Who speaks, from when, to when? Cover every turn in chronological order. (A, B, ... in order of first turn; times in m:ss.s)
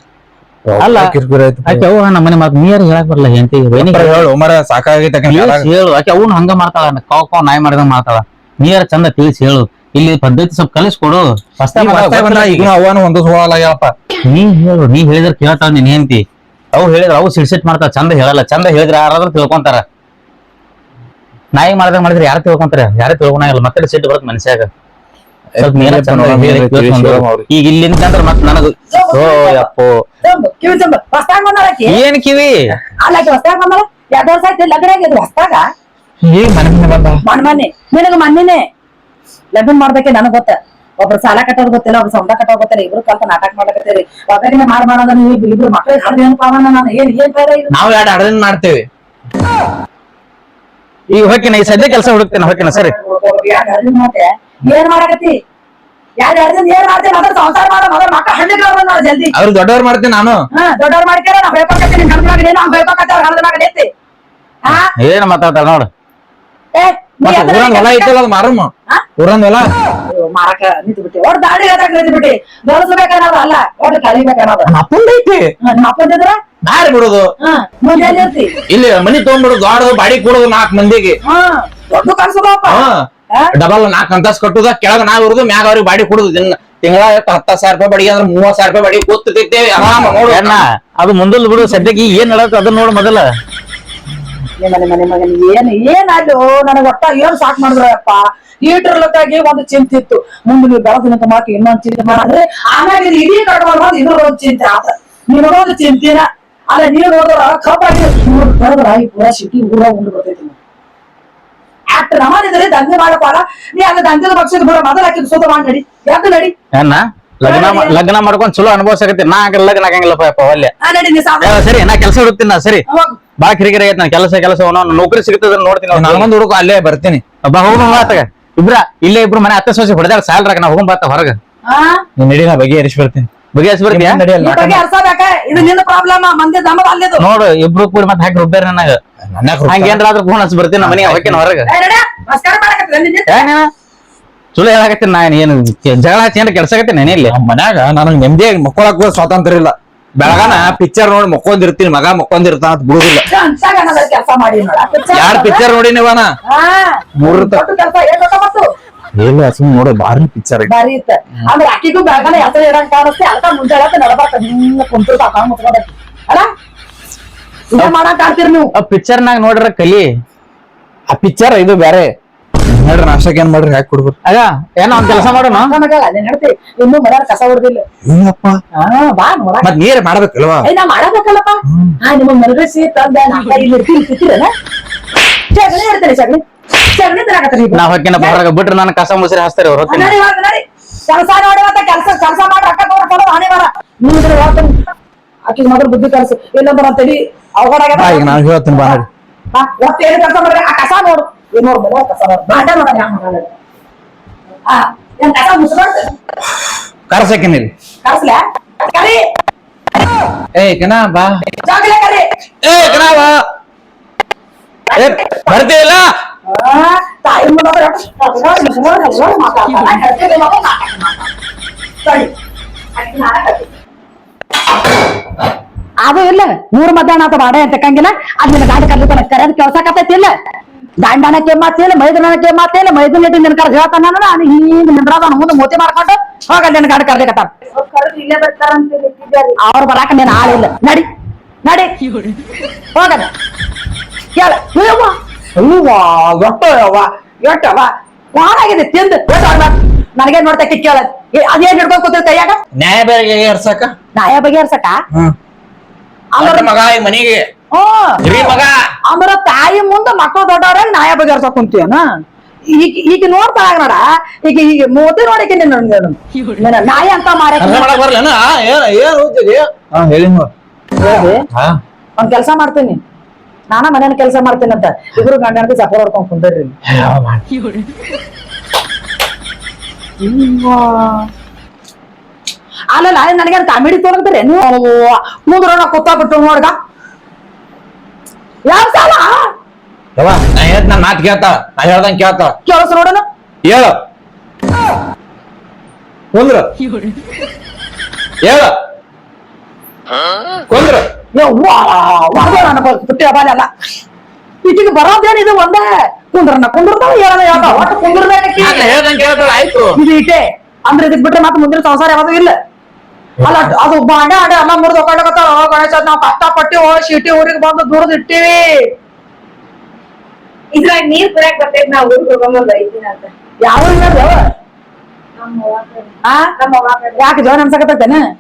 0:00.6-0:01.9 A
0:00.8-0:01.1 B
0:01.6-0:04.2 B
0:03.8-0:05.7 A
0:05.3-0:12.7 B
0:11.7-0:13.9 A
0:14.2-0:19.8 B
0:21.5-0:24.7 B
0:25.6-0:27.5 A
0:25.6-0:30.0 B
0:28.9-0:29.7 C
0:30.2-0:32.0 C
0:31.9-0:32.7 B
0:33.0-0:35.6 C
0:36.2-0:37.2 A
0:37.2-0:38.6 C
0:39.5-0:47.7 C
0:47.7-0:48.9 A
0:51.1-0:52.9 B
0:51.3-0:55.3 C
0:56.2-0:59.3 C
0:59.3-1:00.4 A
1:00.5-1:03.9 C
1:04.6-1:04.9 C
1:05.0-1:05.9 B
1:06.7-1:08.1 C
1:07.2-1:09.7 A
1:10.1-1:14.7 C
1:14.7-1:15.5 A
1:15.6-1:16.4 C
1:16.6-1:17.3 A
1:17.4-1:18.6 C
1:18.7-1:21.2 A
1:21.2-1:23.5 C
1:22.7-1:30.6 A
1:29.8-1:33.3 B
1:34.6-1:50.6 C
1:51.9-1:56.5 C
1:56.7-2:00.7 B
1:57.4-1:58.0 C
2:00.8-2:01.6 C
2:01.4-2:02.8 B
2:02.9-2:03.2 C
2:03.4-2:06.3 B
2:05.9-2:07.2 A
2:07.4-2:11.4 B
2:11.7-2:12.0 C
2:12.2-2:13.3 A
2:13.5-2:14.2 B
2:13.9-2:14.8 A
2:14.4-2:17.2 C
2:17.2-2:19.0 B
2:19.3-2:20.0 A
2:19.7-2:21.7 B
2:20.8-2:21.4 A
2:21.7-2:23.4 C
2:23.3-2:23.7 B
2:24.6-2:27.3 B
2:27.3-2:33.3 A
2:30.3-2:30.5 C
2:33.3-2:35.6 C
2:35.1-2:36.3 A
2:36.5-2:38.7 C
2:37.2-2:37.6 A
2:39.2-2:40.7 A
2:40.7-2:46.5 C
2:47.7-2:48.7 C
2:48.8-2:50.1 B
2:51.1-2:52.1 A
2:52.7-2:54.2 A
2:54.3-2:55.7 B
2:55.5-2:57.8 C
2:58.0-2:58.6 A
2:58.8-2:59.7 C
2:59.6-3:00.7 A
3:00.6-3:04.5 C
3:01.7-3:02.0 A
3:05.5-3:08.4 C
3:07.7-3:10.2 B
3:09.9-3:14.7 C
3:15.5-3:19.0 C
3:17.9-3:19.1 A
3:19.5-3:23.5 C
3:24.7-3:26.1 C
3:27.1-3:27.7 A
3:28.0-3:29.2 C
3:30.6-3:31.4 A
3:31.6-3:32.3 C
3:32.6-3:33.4 A
3:34.9-3:35.6 C
3:35.0-3:36.1 A
3:36.5-3:41.3 C
3:42.0-3:42.3 C
3:43.0-3:43.7 C
3:46.0-3:50.3 C
3:51.0-3:57.5 C
3:57.7-3:59.6 D
3:59.6-4:01.1 C
4:01.6-4:01.9 C
4:02.9-4:03.3 C
4:04.4-4:12.6 C
4:12.8-4:13.9 A
4:14.2-4:15.0 C
4:16.4-4:16.7 C
4:16.4-4:17.5 A
4:17.7-4:18.2 C
4:18.2-4:18.7 A
4:19.1-4:22.0 C
4:22.7-4:27.9 C
4:27.6-4:30.5 A
4:31.0-4:31.4 C
4:31.5-4:31.8 A
4:32.2-4:33.0 C
4:33.7-4:36.8 C
4:36.9-4:37.4 A
4:40.2-4:41.3 C
4:42.9-4:46.7 C
4:48.7-4:49.5 C
4:50.2-4:52.5 A
4:52.7-4:53.2 C
4:53.6-4:54.0 A
4:56.3-4:56.7 A
4:58.4-4:58.7 A
5:00.7-5:01.0 A
5:01.4-5:03.7 C
5:04.6-5:08.9 C
5:08.6-5:10.0 A
5:09.9-5:12.6 C
5:13.4-5:18.9 C
5:20.7-5:23.3 D
5:23.6-5:24.4 C
5:25.4-5:27.2 D
5:26.2-5:26.5 C
5:27.2-5:28.2 C